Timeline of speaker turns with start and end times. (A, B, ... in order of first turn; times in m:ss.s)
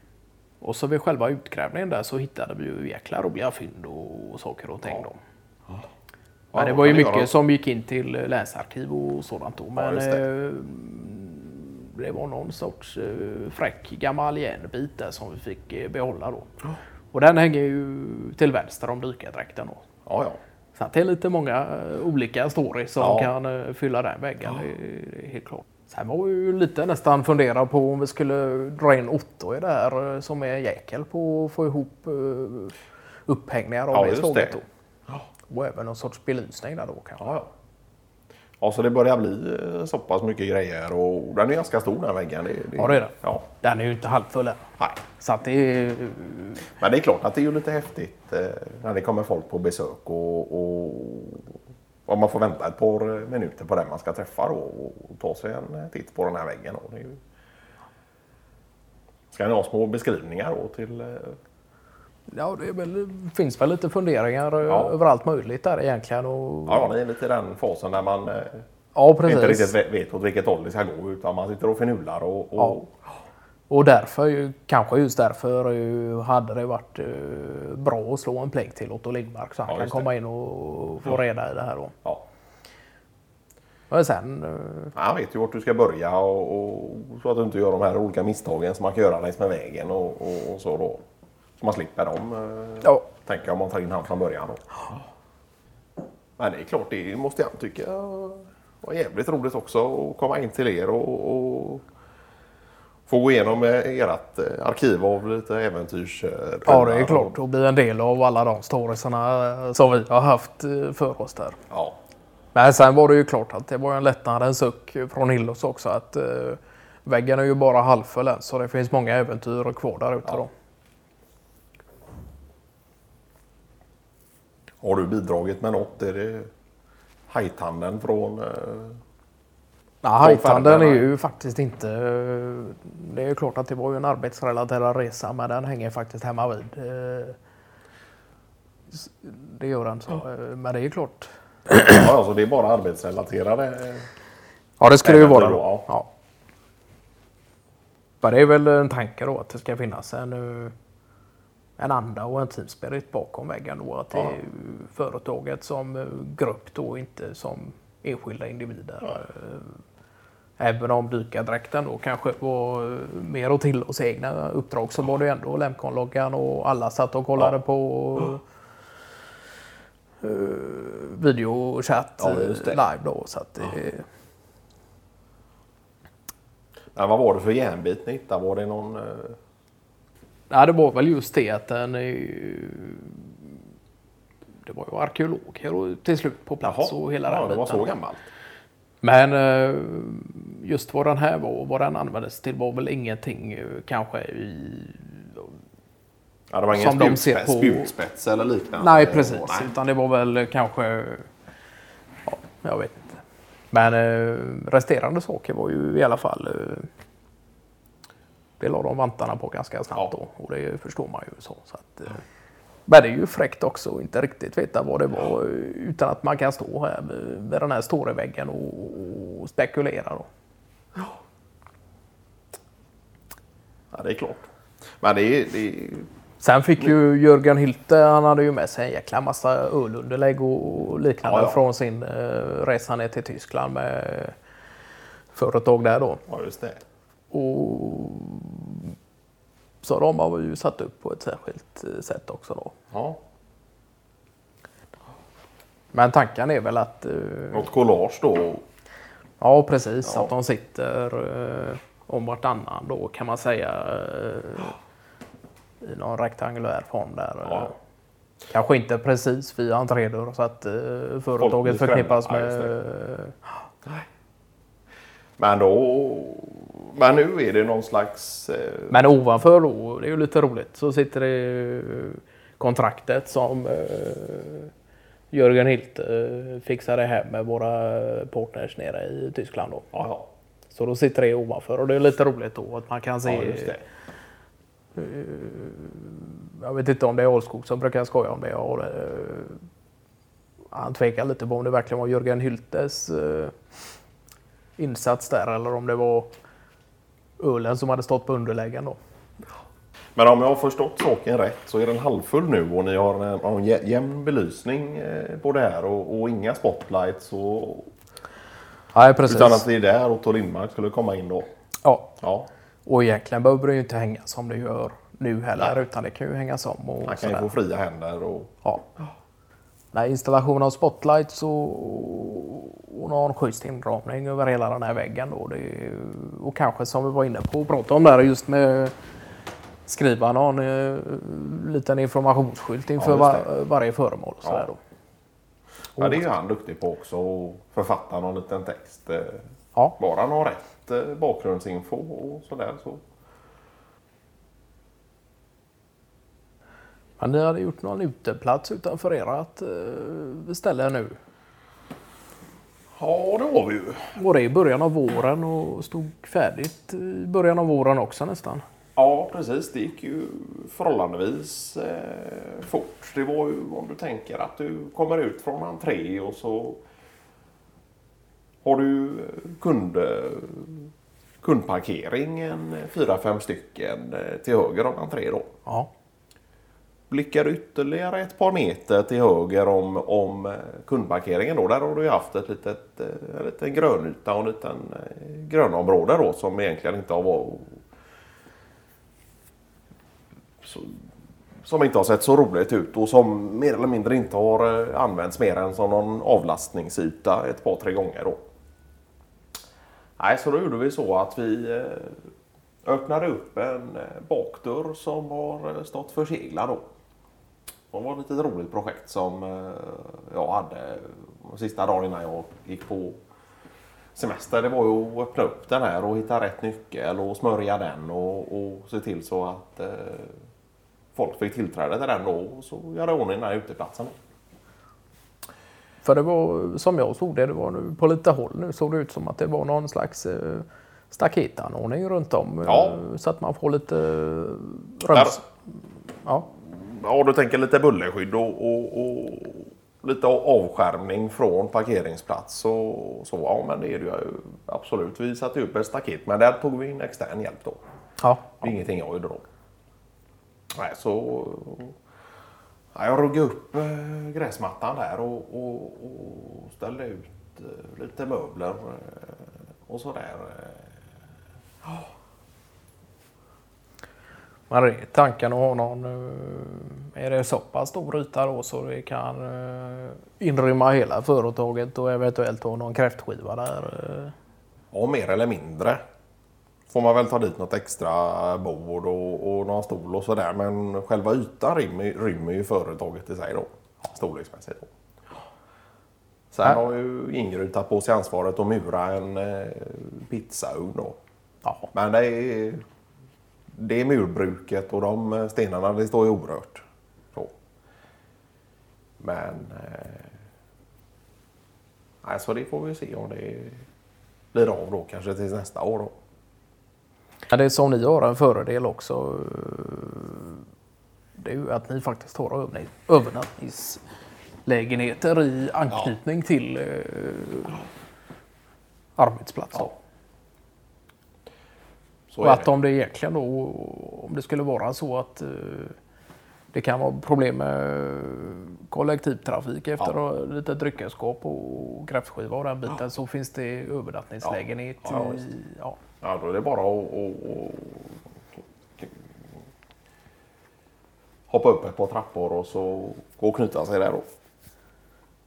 0:00.6-0:05.2 A
0:06.5-0:07.3 B
0:06.5-0:16.6 A
0:09.8-0:10.2 B
0:17.1-0:19.8 A
0:20.1-0:20.4 B
0:20.8-0:34.6 A
0:23.0-0:23.3 B
0:33.9-0:34.6 B
0:35.5-0:37.3 A
0:37.2-0:37.5 B
0:38.6-0:43.5 B
0:42.8-0:46.7 A
0:46.7-0:57.2 B
0:59.3-1:01.4 B
1:02.3-1:06.9 A
1:04.7-1:05.0 B
1:06.7-1:08.7 B
1:08.9-1:09.7 A
1:09.2-1:12.9 B
1:13.7-1:22.0 A
1:19.7-1:20.1 B
1:23.9-1:24.9 A
1:25.0-1:31.0 B
1:31.6-1:34.8 B
1:36.4-1:41.8 B
1:43.1-1:47.4 B
1:46.7-1:51.6 A
1:51.7-1:52.0 B
1:52.5-2:00.5 A
2:04.8-2:06.5 B
2:07.3-2:09.0 B
2:10.0-2:17.4 A
2:10.2-2:11.1 B
2:18.9-2:21.8 A
2:21.8-2:24.1 B
2:24.8-2:26.1 A
2:25.0-2:25.9 B
2:28.2-2:30.7 A
2:31.8-2:39.8 A
2:40.6-2:48.4 A
2:50.2-2:54.0 A
2:52.2-2:52.8 B
2:57.0-2:59.4 B
3:00.5-3:03.5 A
3:04.6-3:08.0 A
3:06.6-3:08.3 B
3:09.0-3:15.5 A
3:16.5-3:19.7 B
3:16.7-3:17.9 A
3:18.7-3:21.3 A
3:22.3-3:23.2 A
3:23.7-3:26.9 A
3:28.6-3:32.2 A
3:32.9-3:40.3 A
3:43.9-3:44.5 B
3:45.0-3:46.1 B
3:46.4-3:54.4 A
3:51.2-3:51.6 B
3:55.3-3:56.2 A
3:56.3-3:56.8 B
3:57.3-3:59.0 A
3:59.8-4:02.8 A
4:02.9-4:03.2 B
4:05.9-4:07.7 A
4:07.5-4:08.6 B
4:09.4-4:14.8 A
4:15.8-4:17.8 A
4:17.4-4:17.7 B
4:18.5-4:23.5 A
4:21.4-4:22.8 B
4:25.4-4:29.0 B
4:28.9-4:34.7 A
4:35.3-4:39.9 A
4:39.9-4:40.3 B
4:40.7-4:43.8 A
4:43.2-4:43.8 B
4:45.0-4:49.6 A
4:50.7-4:53.6 A
4:54.8-4:56.3 A
4:57.4-4:59.0 A
5:00.2-5:07.9 B
5:08.9-5:09.7 A
5:09.2-5:11.5 B
5:11.8-5:12.2 A
5:12.2-5:12.5 B
5:12.9-5:17.5 A
5:17.0-5:19.1 B
5:19.9-5:28.9 A
5:29.9-5:34.8 A
5:33.0-5:33.5 B
5:36.0-5:39.4 B
5:36.0-5:36.2 A
5:40.0-5:43.0 B
5:47.2-5:51.2 A
5:53.0-5:54.1 B
5:54.1-5:58.6 A
5:59.0-6:06.8 B
6:08.6-6:10.9 B
6:11.4-6:15.5 B
6:17.1-6:27.8 B
6:30.6-6:31.0 B
6:31.6-6:38.4 B
6:40.2-6:42.3 B
6:42.8-6:46.8 B
6:47.9-6:53.2 B
6:54.2-7:00.4 B
7:01.2-7:04.2 B
7:06.0-7:15.5 A
7:12.6-7:13.0 B
7:15.1-7:15.4 B
7:16.5-7:27.8 B
7:28.2-7:28.7 A
7:28.6-7:29.4 B
7:30.8-7:32.0 B
7:33.0-7:41.0 B
7:44.7-7:54.3 A
7:54.9-7:56.0 B
7:56.9-8:04.9 B
8:06.5-8:11.2 B
8:11.9-8:12.8 B
8:13.8-8:17.5 B
8:19.2-8:20.3 B
8:22.2-8:23.8 B
8:24.5-8:26.1 B
8:27.5-8:30.6 A
8:31.4-8:34.0 A
8:34.6-8:37.8 A
8:39.2-8:39.9 A
8:42.3-8:42.7 B
8:42.4-8:46.0 A
8:46.7-8:56.0 A
8:54.4-8:55.5 B
8:56.2-8:58.2 B
9:01.5-9:04.2 B